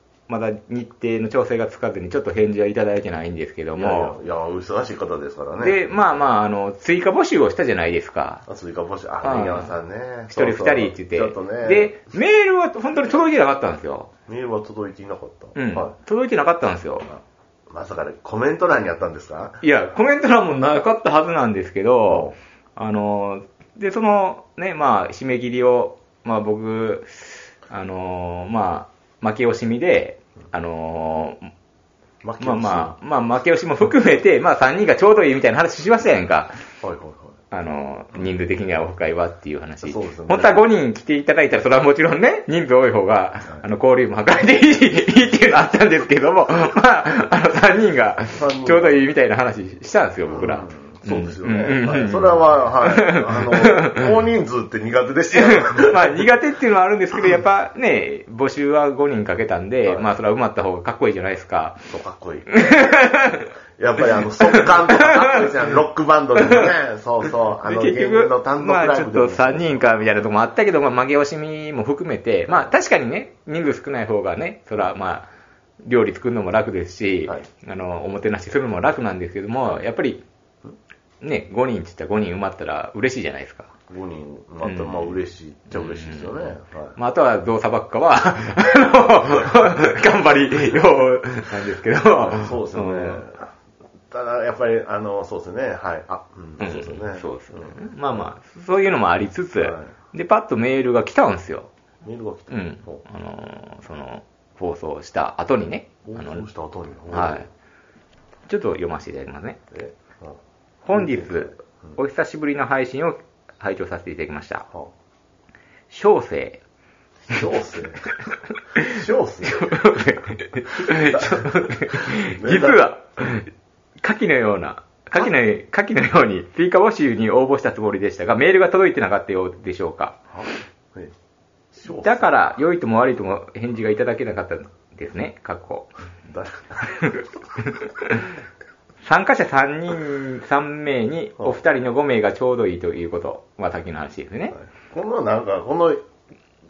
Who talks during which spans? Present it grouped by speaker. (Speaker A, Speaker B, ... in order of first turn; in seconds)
Speaker A: 0.3-4.2, 5.6-8.4, 9.2-9.8, 10.3-14.1, 15.5-17.1, 19.6-31.5, 32.4-36.6, 37.5-54.1, 55.3-61.9, 62.5-63.5, 64.3-65.4, 67.3-75.3, 75.8-80.2, 81.2-83.7, 84.6-93.2, 96.6-101.7, 102.5-106.5, 107.1-107.5, 108.5-109.6, 110.8-114.7, 115.9-116.6, 118.5-130.2, 131.9-135.9, 136.8-138.3, 139.0-144.6
Speaker B: 3.8-5.8, 8.5-12.0, 14.3-15.9, 17.0-19.6, 22.1-22.4, 32.2-33.0, 36.8-37.4, 39.8-40.6, 48.3-49.0, 50.3-56.2, 59.8-60.1, 61.9-63.0, 63.8-69.9, 72.5-72.7, 83.9-87.0, 92.1-93.5, 94.1-98.2, 99.6-99.9, 102.0-103.0, 106.0-107.5, 109.7-110.4, 110.9-112.0, 117.3-118.0, 118.8-119.8, 120.8-122.8, 130.3-131.1, 131.7-132.3, 136.3-136.9, 144.5-146.0